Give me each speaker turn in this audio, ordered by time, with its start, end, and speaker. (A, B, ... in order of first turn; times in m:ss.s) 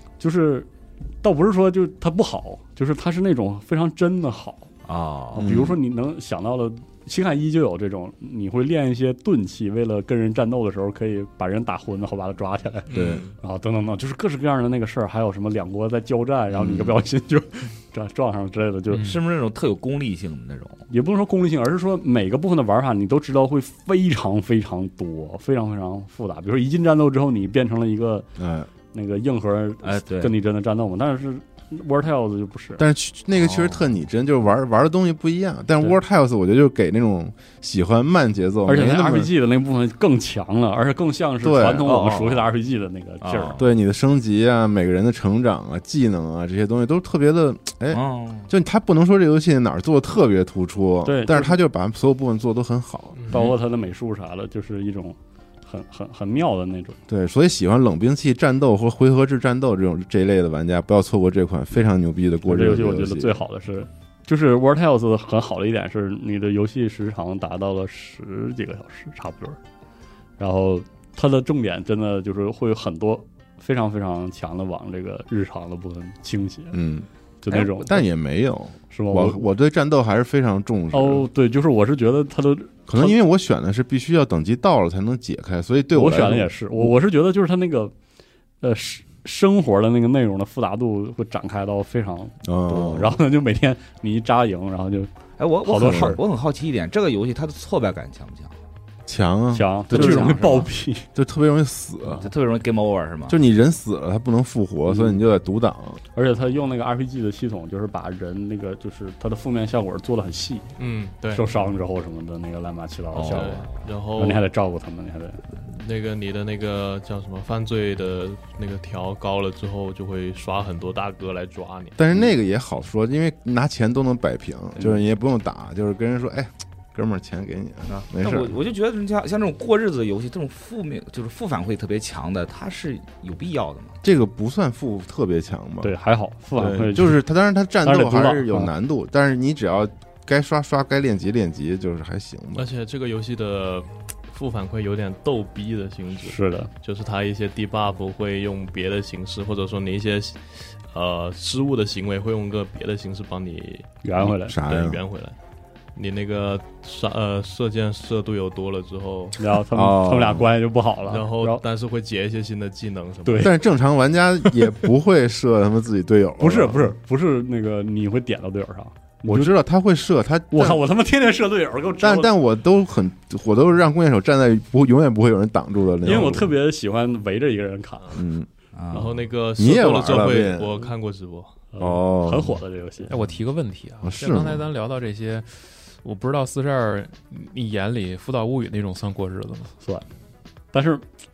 0:00.2-0:00.7 A
0:01.2-0:04.7 A
0:04.8-0:05.5 B
0:05.4-0:19.1 A
0:05.4-0:05.8 C
0:12.9-0:13.2 D
0:12.9-0:13.2 C
0:12.9-0:13.2 B
0:16.6-0:17.0 B
0:18.9-0:19.2 E
0:19.0-0:20.8 B
0:20.9-0:28.3 A
0:28.4-0:28.7 C
0:28.9-0:32.8 A
0:29.8-0:30.4 B
0:32.8-0:39.3 C
0:33.4-0:33.8 B
0:38.7-0:43.6 A
0:41.4-0:41.9 C
0:41.8-0:42.5 B
0:43.2-0:43.6 B
0:43.6-0:53.3 C
0:47.9-0:48.5 B
0:51.0-0:51.6 A
0:53.2-0:53.5 D
0:53.3-0:57.0 A
0:57.1-1:03.4 C
1:02.5-1:09.6 A
1:10.4-1:16.8 A
1:16.7-1:21.3 C
1:17.4-1:18.0 A
1:18.9-1:19.4 A
1:20.9-1:23.2 A
1:22.9-1:26.9 C
1:25.9-1:27.9 A
1:28.6-1:35.1 A
1:32.4-1:33.2 C
1:35.4-1:38.6 B
1:35.6-1:36.2 A
1:39.1-1:42.2 C
1:39.5-1:41.1 A
1:39.9-1:40.7 B
1:42.2-1:43.4 B
1:43.3-1:46.0 C
1:44.9-1:45.2 A
1:46.1-1:50.7 A
1:50.8-1:51.4 D
1:51.3-1:53.7 A
1:53.1-1:53.9 B
1:53.2-1:54.4 D
1:54.2-1:55.4 A
1:55.6-2:02.0 D
2:02.0-2:08.6 C
2:07.9-2:14.0 B
2:14.0-2:15.9 C
2:15.8-2:17.2 A
2:16.6-2:22.7 C
2:17.8-2:18.7 A
2:22.6-2:34.0 D
2:26.2-2:26.7 A
2:34.0-2:34.6 A
2:34.2-2:35.0 C
2:34.5-2:35.4 D
2:36.0-2:39.4 D
2:39.4-2:41.6 A
2:39.7-2:40.5 C
2:41.1-2:43.6 D
2:43.2-2:43.5 A
2:43.4-2:46.9 C
2:46.4-2:49.5 A
2:49.2-2:50.8 C
2:50.5-2:52.3 A
2:52.0-2:56.5 C
2:56.0-2:58.2 A
2:58.2-2:58.5 C
2:58.7-2:59.2 B
2:58.9-3:01.6 D
2:59.6-3:00.8 C
3:01.7-3:03.2 A
3:01.8-3:02.6 C
3:03.1-3:09.7 E
3:04.0-3:04.6 C
3:10.7-3:11.0 A